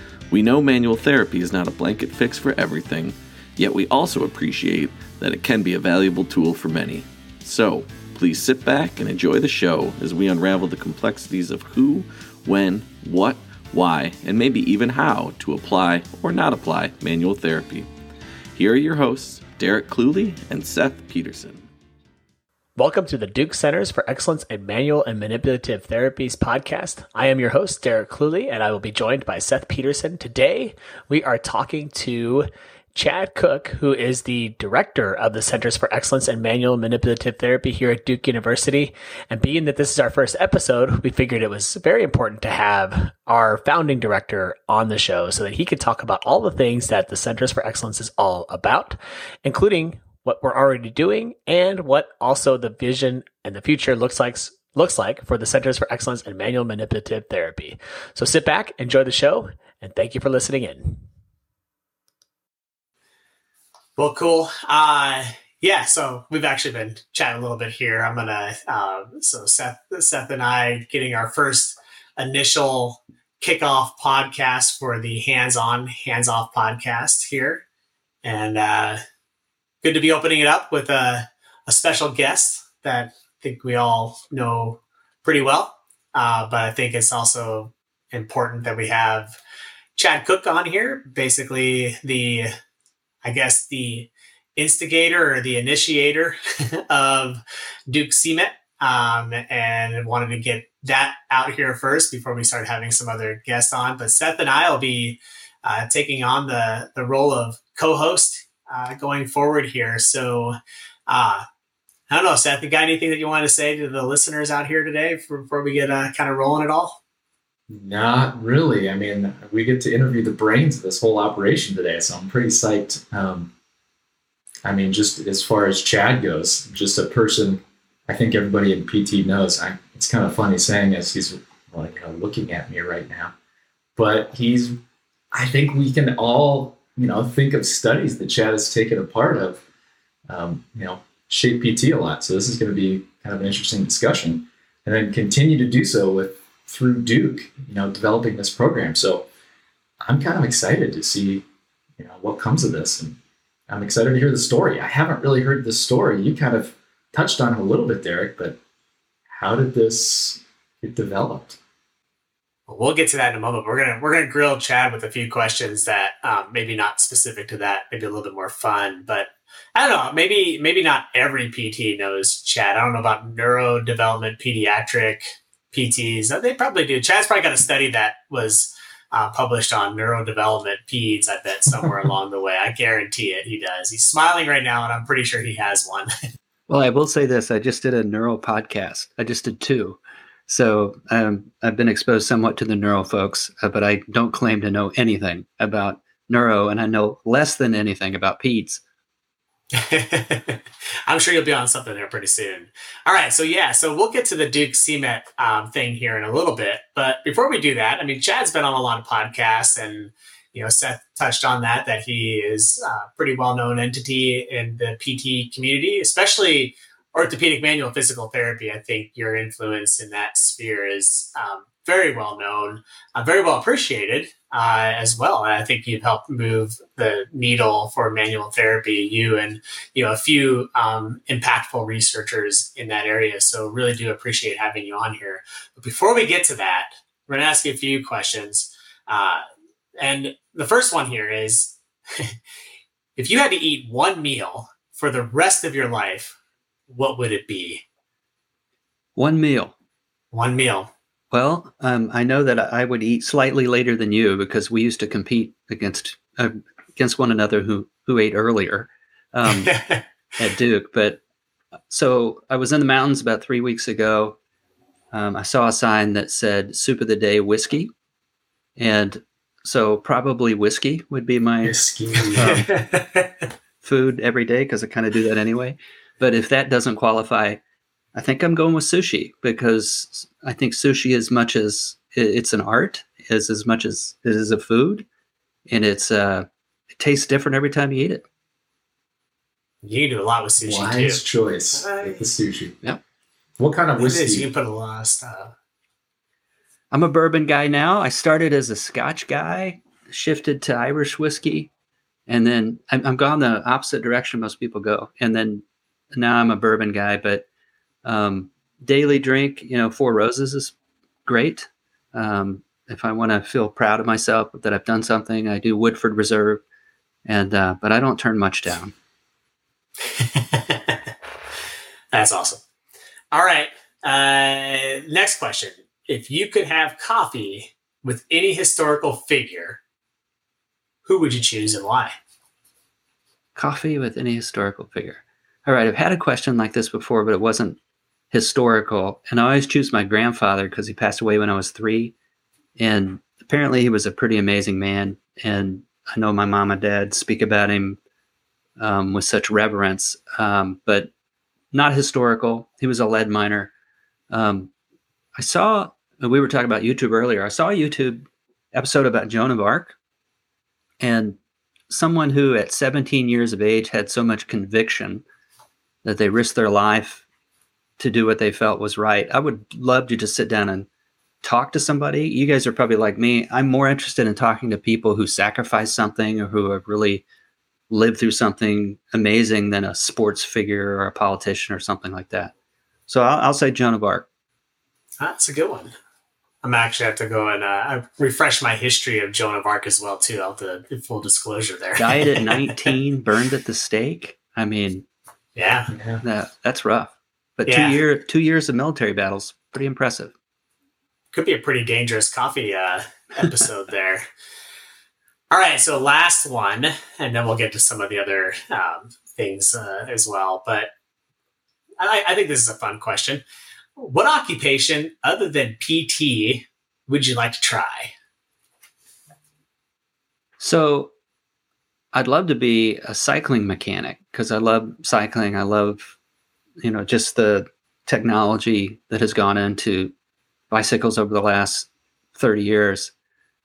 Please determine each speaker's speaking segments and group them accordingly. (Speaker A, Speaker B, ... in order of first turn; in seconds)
Speaker A: 0.3-17.9, 18.6-21.6
Speaker B: 22.8-61.0, 64.0-77.6, 78.2-79.0, 79.8-89.4, 90.0-92.5, 93.2-96.4, 96.9-110.6, 111.1-111.5, 112.1-117.0, 162.7-186.1, 199.7-239.4, 240.0-242.3, 243.2-246.3, 246.9-247.8, 250.3-250.9, 259.5-260.1, 272.4-273.4, 289.8-291.2, 291.8-292.2, 294.0-295.5, 320.1-321.1, 322.1-322.6, 323.3-329.8, 331.1-332.1, 385.2-385.9, 386.6-392.8, 395.6-395.9, 397.7-398.0, 401.3-404.2, 405.5-410.9, 412.0-413.4, 414.0-418.1
Speaker C: 117.7-123.5, 124.6-133.3, 134.0-134.8, 135.3-139.6, 140.3-149.3, 150.0-151.4, 152.0-153.2, 153.7-158.6, 159.3-161.6, 271.6-272.6, 290.6-292.9, 293.6-294.5, 395.9-396.2
Speaker D: 186.7-198.8, 249.2-249.7, 251.3-259.8, 260.4-261.2, 261.9-264.4, 265.1-267.9, 268.8-271.8, 272.4-272.7, 273.8-277.6, 278.1-285.1, 285.7-288.2, 296.9-301.7, 302.3-307.4, 308.0-310.7, 311.2-316.6, 317.2-318.9, 333.6-337.8, 338.3-342.1, 342.8-348.0, 348.8-351.1, 351.7-353.7, 354.3-354.7, 355.4-360.0, 361.0-361.4, 361.9-365.2, 366.1-367.2, 368.0-370.9, 371.4-377.2, 377.9-382.5, 383.1-384.3, 391.9-395.1, 396.2-400.3, 420.6-421.1, 422.1-426.1, 426.8-430.1, 430.7-433.1